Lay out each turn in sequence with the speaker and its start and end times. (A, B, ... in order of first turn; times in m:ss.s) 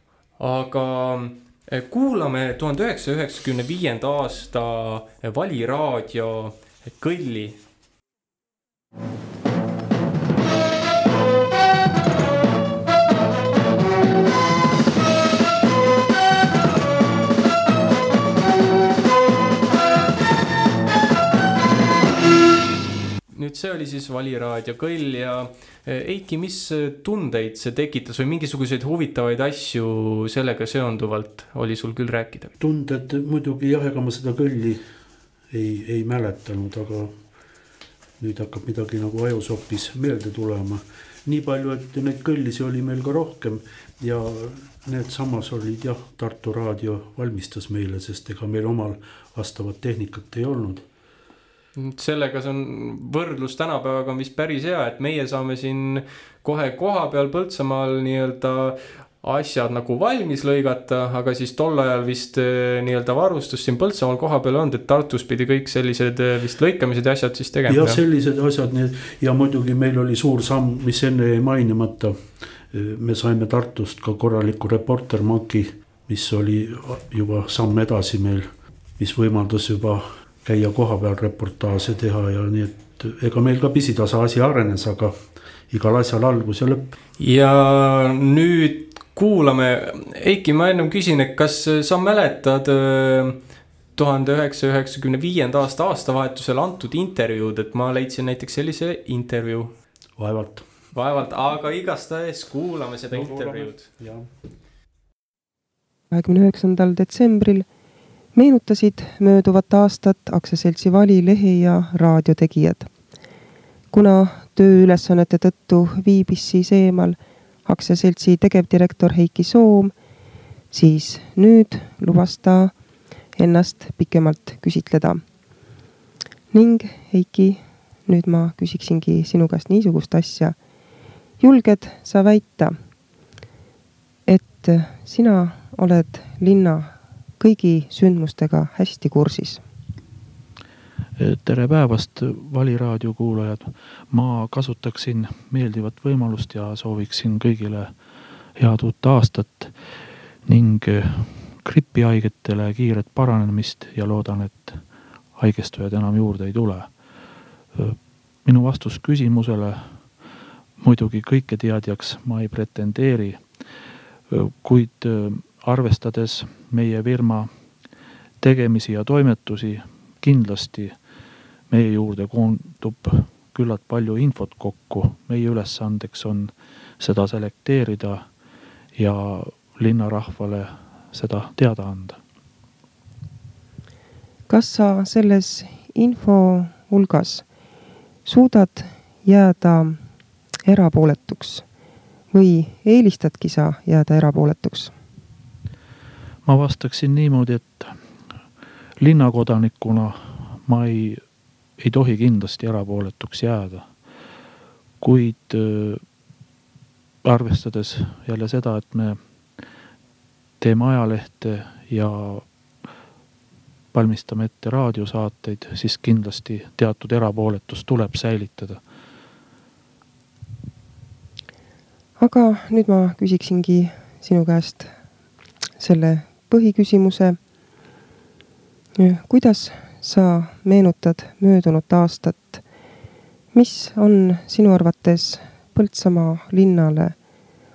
0:00.4-0:07.6 A
0:23.3-0:32.5 A
0:32.6-0:34.8 B
0:35.5-0:37.1 B
0:38.2-0:50.8 B
0:51.8-1:08.0 A
1:07.7-1:12.2 B
1:12.7-1:25.2 B
1:25.7-1:26.9 B
1:27.2-1:33.4 A
1:34.0-1:39.7 A
1:40.2-1:40.6 B
1:40.9-1:43.9 A
1:43.1-1:44.3 B
1:46.1-1:47.7 C
1:48.3-1:52.9 C
1:53.9-1:59.9 C
2:00.7-2:02.8 C
2:03.4-2:05.2 C
2:06.5-2:10.6 C
2:11.4-2:12.8 C
2:14.3-2:19.6 C
2:21.2-2:27.9 D
2:28.6-2:29.7 D
2:30.5-2:34.8 D
2:35.4-2:36.9 D
2:37.8-2:40.0 D
2:40.8-2:43.4 D
2:44.3-2:47.5 D
2:48.4-2:51.0 D
2:51.7-2:58.3 D
2:59.0-3:02.2 D
3:04.5-3:07.5 C
3:08.2-3:10.0 C
3:10.6-3:11.7 C
3:12.3-3:14.9 C
3:16.4-3:18.0 D
3:19.0-3:21.2 D
3:21.8-3:23.9 D
3:25.0-3:26.0 D
3:27.2-3:29.2 D
3:30.6-3:32.4 D
3:33.9-3:38.8 D
3:42.2-3:44.9 C
3:45.8-3:47.4 C
3:49.0-3:52.6 C
3:53.5-3:57.2 C